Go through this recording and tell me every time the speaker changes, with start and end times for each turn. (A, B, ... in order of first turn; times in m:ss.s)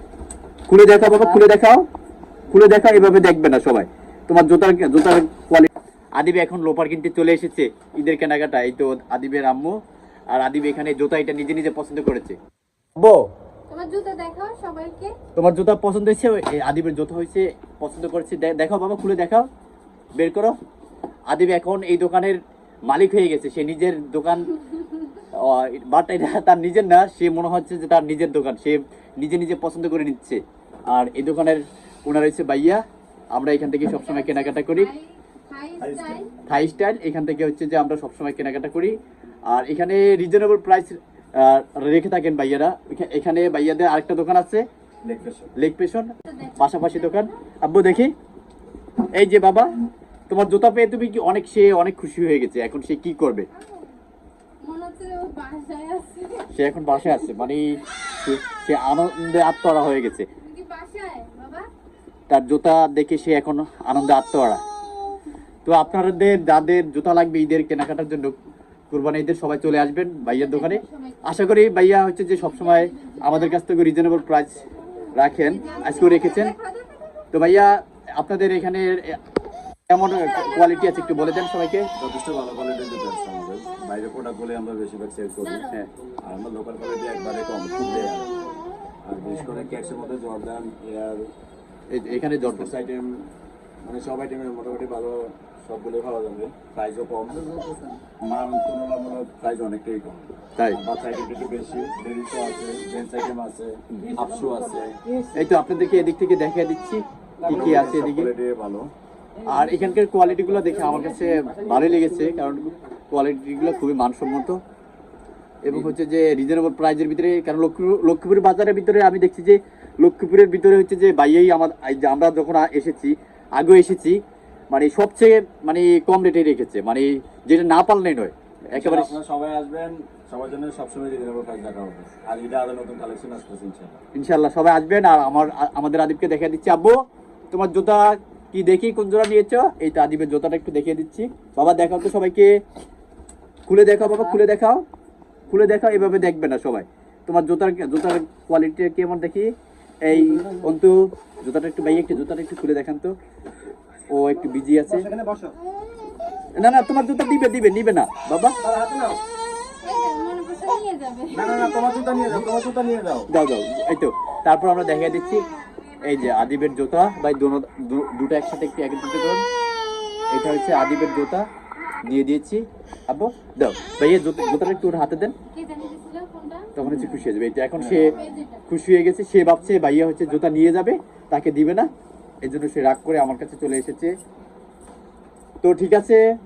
0:00.7-0:01.8 A
0:02.5-0:09.8 A
0:10.3-0:12.4 A
0:13.0-0:13.3 A
0:13.7-0:15.2 B
0:15.4-0:19.5 A
0:20.2-0:20.6 A
0:21.3-0:22.4 A
0:22.9-0:24.6 A
0:25.3-0:32.8 A
0:33.4-0:34.9 A
0:33.8-0:36.3 B
0:35.8-0:36.3 C
0:36.5-0:39.0 A
0:39.5-0:44.6 A
0:45.0-0:45.5 C
0:45.6-0:48.1 A
0:46.3-0:47.4 B
0:49.1-0:49.7 A
0:50.3-0:53.5 A
0:53.5-0:53.9 B
0:54.6-0:56.5 B
0:56.5-1:00.3 A
1:00.4-1:01.7 B
1:02.3-1:04.6 A
1:05.6-1:08.4 A
1:08.9-1:14.6 A
1:10.2-1:11.4 B
1:12.3-1:13.5 B
1:15.1-1:16.5 A
1:15.4-1:17.2 B
1:17.3-1:19.2 A
1:19.9-1:21.9 A
1:22.0-1:25.7 C
1:25.4-1:25.7 B
1:26.2-1:28.4 C
1:29.0-1:31.3 C
1:31.9-1:32.7 A
1:32.4-1:33.3 C
1:33.8-1:37.6 C
1:38.2-1:45.0 C
1:45.3-1:48.3 A
1:47.4-1:48.9 C
1:49.4-1:54.6 A
1:55.6-2:04.2 A
1:55.7-1:55.9 C
2:04.7-2:09.2 A
2:08.7-2:14.0 C
2:14.2-2:16.9 A
2:17.5-2:22.5 A
2:23.7-2:24.8 A
2:25.5-2:29.5 A
2:30.0-2:33.1 A
2:34.1-2:35.1 A
2:36.6-2:38.6 A
2:38.8-2:39.2 C
2:39.8-2:41.8 B
2:41.3-2:43.3 C
2:43.3-2:45.4 A
2:46.0-2:49.4 A
2:50.3-2:51.4 A
2:52.0-2:55.4 A
2:55.5-2:56.7 B
2:56.8-3:01.9 A
2:57.7-2:58.3 C
2:58.0-2:58.6 B
3:02.4-3:04.1 A
3:05.6-3:06.2 A